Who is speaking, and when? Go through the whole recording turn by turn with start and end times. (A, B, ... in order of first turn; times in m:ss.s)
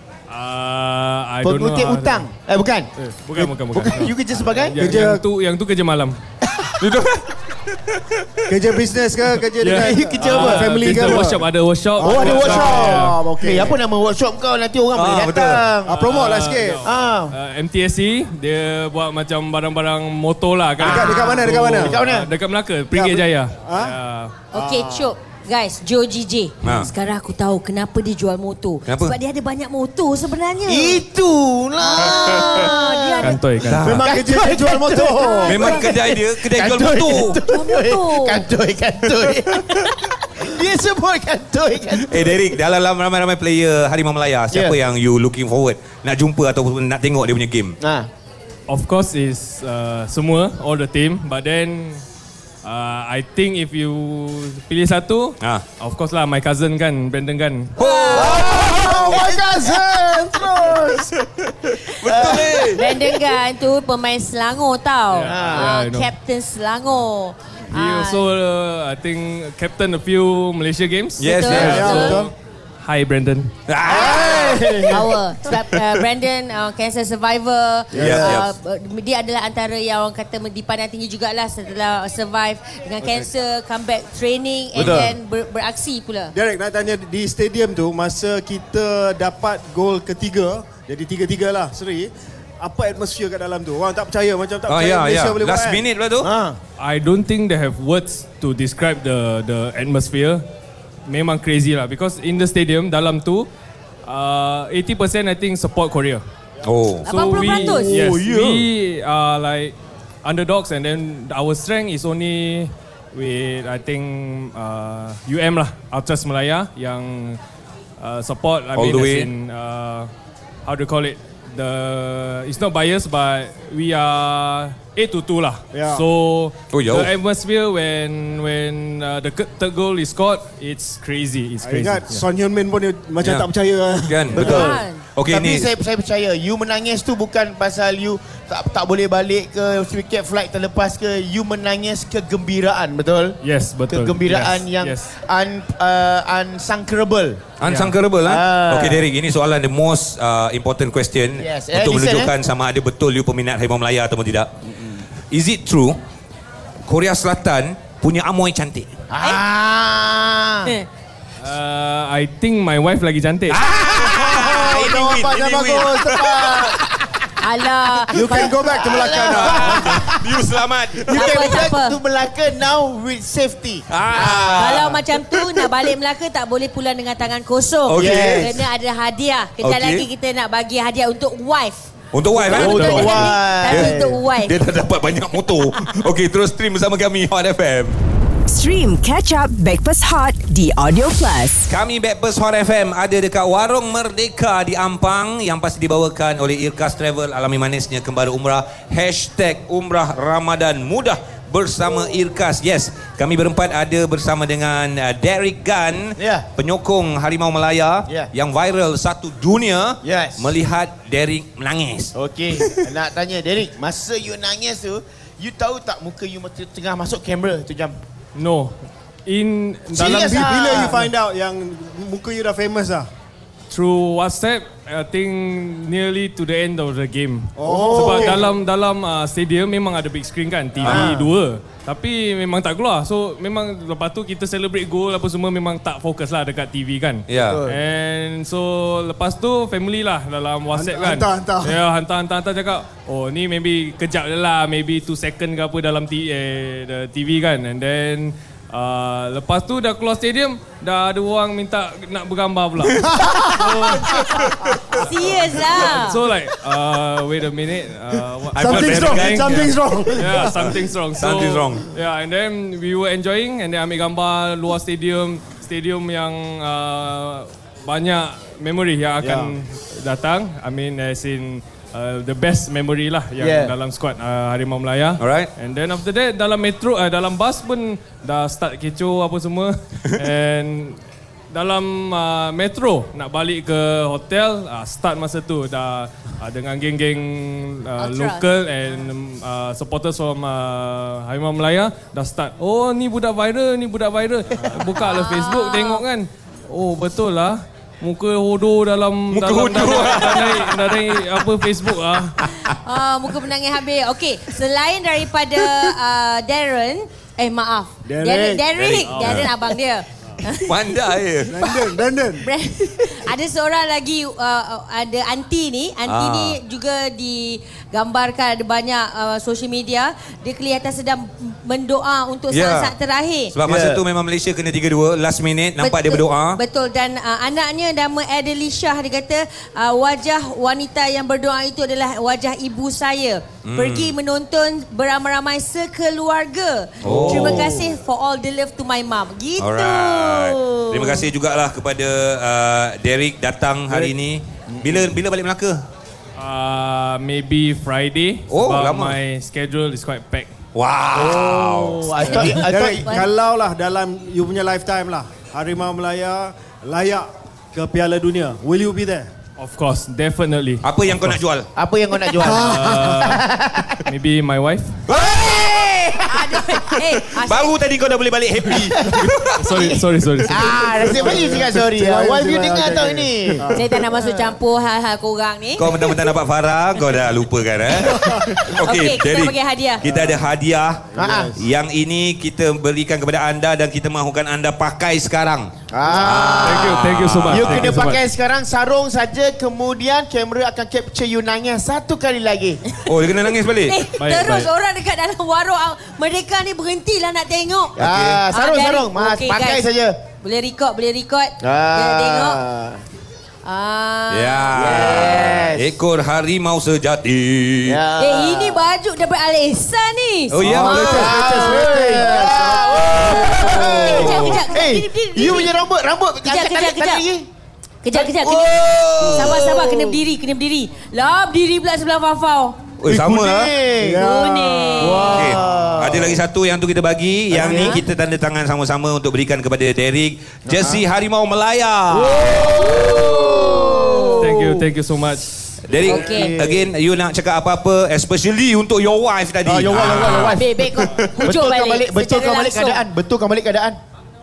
0:00.3-0:02.3 A
0:01.4-0:02.9 B
0:03.0-0:06.2 A
0:03.7-0:04.8 B
0:04.8-0:05.3 C
0:06.4-0:06.8 B
0:06.8-0:08.4 D
0:08.5-0:11.4 C
0:09.6-0:13.2 A
0:09.7-0:11.2 B
0:12.0-0:13.8 C
0:12.1-0:16.0 B
0:14.9-0:15.7 D
0:15.8-0:16.9 C
0:15.9-0:24.4 A
0:16.8-0:17.3 B
0:20.8-0:22.3 B
0:20.8-0:22.0 C
0:22.9-0:24.0 C
0:24.5-0:25.1 C
0:24.5-0:31.0 E
0:26.6-0:26.9 D
0:28.9-0:29.2 D
0:30.7-0:33.4 B
0:31.8-0:33.4 E
0:32.2-0:32.6 D
0:33.2-0:34.0 A
0:33.6-0:34.2 D
0:33.8-0:35.6 C
0:34.0-0:42.4 B
0:35.2-0:36.0 E
0:35.5-0:37.4 D
0:37.5-0:38.4 E
0:42.0-0:47.8 D
0:44.5-0:44.8 B
0:47.8-0:48.1 B
0:48.7-0:52.0 A
0:52.6-0:57.8 A
0:57.8-0:58.5 E
0:57.8-0:59.0 D
0:58.1-1:01.0 B
0:58.2-1:00.9 C
1:01.1-1:02.8 D
1:02.0-1:03.0 B
1:02.5-1:08.3 E
1:05.1-1:06.1 A
1:05.3-1:05.7 B
1:07.7-1:13.5 A
1:11.2-1:12.0 D
1:11.2-1:12.2 E
1:11.5-1:12.3 C
1:13.7-1:15.0 D
1:13.9-1:15.1 C
1:14.0-1:26.4 E
1:15.7-1:16.0 D
1:17.9-1:18.4 C
1:18.0-1:18.5 D
1:24.8-1:25.1 D
1:24.8-1:25.1 B
1:26.3-1:35.8 C
1:34.7-1:36.3 D
1:36.2-1:36.6 B
1:36.8-1:40.4 A
1:41.1-1:43.5 A
1:44.0-1:46.2 A
1:46.6-1:47.1 D
1:47.0-1:48.0 E
1:47.1-1:57.4 A
1:47.7-1:48.7 D
1:58.0-2:00.1 A
1:58.7-1:59.3 D
2:00.6-2:12.2 A
2:05.7-2:06.0 C
2:06.7-2:07.1 D
2:11.6-2:14.6 C
2:14.1-2:15.7 D
2:14.3-2:27.4 B
2:14.4-2:15.0 E
2:23.4-2:25.1 A
2:27.6-2:34.5 D
2:27.6-2:27.9 A
2:28.2-2:29.0 B
2:31.4-2:32.4 B
2:35.2-2:36.0 D
2:36.9-2:38.9 D
2:39.1-2:40.7 B
2:41.4-2:43.6 A
2:43.5-2:46.7 D
2:44.1-2:46.8 C
2:44.4-2:45.2 B
2:46.7-2:47.2 B
2:47.4-2:48.5 E
2:48.1-2:50.5 B
2:48.1-2:50.1 C
2:49.3-2:51.7 D
2:51.0-2:55.0 B
2:51.1-2:52.0 E
2:53.9-2:55.7 D
2:54.6-3:04.6 E
2:57.9-2:58.6 D
2:58.0-2:58.6 C
2:58.1-2:58.5 B
2:59.6-3:00.1 D
3:02.1-3:08.0 D
3:02.5-3:04.2 B
3:08.5-3:11.7 F
3:11.7-3:32.8 D
3:26.2-3:26.5 B
3:30.0-3:30.6 B
3:32.2-3:38.0 B
3:38.4-3:41.0 A
3:39.9-3:43.1 C
3:40.0-3:41.0 B
3:43.7-4:41.0 A
3:47.6-3:48.4 C
3:47.7-3:48.4 B
3:50.8-3:51.1 D
3:50.8-3:51.3 B
3:57.3-3:57.6 D
3:57.5-3:57.8 B
4:00.7-4:01.8 C
4:13.0-4:14.2 C
4:14.5-4:15.0 D
4:15.0-4:16.2 E
4:18.5-4:19.7 D
4:18.6-4:20.7 C
4:20.5-4:21.8 D
4:29.2-4:29.5 C
4:33.4-4:33.7 B
4:35.2-4:35.5 D
4:41.5-5:02.4 A
4:48.0-4:48.5 E
4:55.0-4:56.0 E
4:59.3-5:01.2 D
5:02.7-5:11.0 E
5:08.0-5:08.7 C
5:08.8-5:09.5 D
5:09.0-5:09.4 A
5:10.6-5:11.6 D
5:11.5-5:12.5 C
5:11.6-5:23.6 E
5:16.1-5:16.6 D
5:22.5-5:22.9 D
5:23.5-5:26.6 D
5:23.6-5:24.0 B
5:25.8-5:41.3 E
5:33.6-5:34.2 D
5:37.0-5:37.8 D
5:39.6-5:45.8 D
5:44.7-5:45.2 B
5:46.4-5:50.5 A
5:48.5-5:49.2 D
5:50.8-5:52.4 D
5:51.1-5:53.2 B
5:52.3-5:59.3 C
5:59.6-6:01.4 A
6:00.8-6:01.7 D
6:01.8-6:04.0 B
6:02.4-6:03.2 C
6:02.4-6:03.5 A
6:04.0-6:05.0 A
6:05.1-6:06.3 D
6:06.3-6:07.8 E
6:06.9-6:10.0 D
6:08.9-6:14.5 B
6:09.6-6:10.6 A
6:10.5-6:11.6 E
6:11.1-6:14.0 C
6:13.7-6:15.9 E
6:15.8-6:28.0 D
6:18.0-6:18.4 C
6:18.7-6:20.0 E
6:20.0-6:20.5 C
6:21.1-6:21.6 C
6:21.2-6:21.5 B
6:25.9-6:27.0 B
6:26.6-6:28.2 A
6:27.5-6:32.8 B
6:32.9-6:33.2 E
6:33.1-6:34.0 D
6:33.8-6:38.0 E
6:34.2-6:34.7 A
6:38.0-6:40.2 B
6:38.0-6:38.4 D
6:38.5-6:39.9 E
6:40.4-6:42.6 E
6:41.6-6:43.0 B
6:43.6-6:45.4 E
6:44.3-6:48.0 D
6:44.8-6:45.9 B
6:47.9-6:48.8 B
6:48.2-6:55.7 E
6:50.5-6:51.3 D
6:50.6-6:53.0 C
6:50.8-6:57.5 B
6:53.2-6:54.5 D
6:53.7-6:54.6 C
6:56.4-6:57.3 E
6:58.0-7:02.8 E
6:58.1-7:00.2 B
6:58.6-6:59.6 D
7:03.0-7:03.7 D
7:03.1-7:04.2 B
7:04.0-7:06.2 C
7:04.2-7:05.4 E
7:05.1-7:06.4 B
7:05.2-7:13.1 D
7:07.5-7:08.0 B
7:07.6-7:08.0 E
7:10.7-7:11.0 B
7:12.1-7:14.8 B
7:13.1-7:14.0 E
7:14.4-7:15.5 A
7:15.9-7:16.9 B
7:15.9-7:21.4 D
7:16.0-7:16.5 E
7:19.7-7:24.0 B
7:19.8-7:20.4 C
7:20.5-7:23.0 E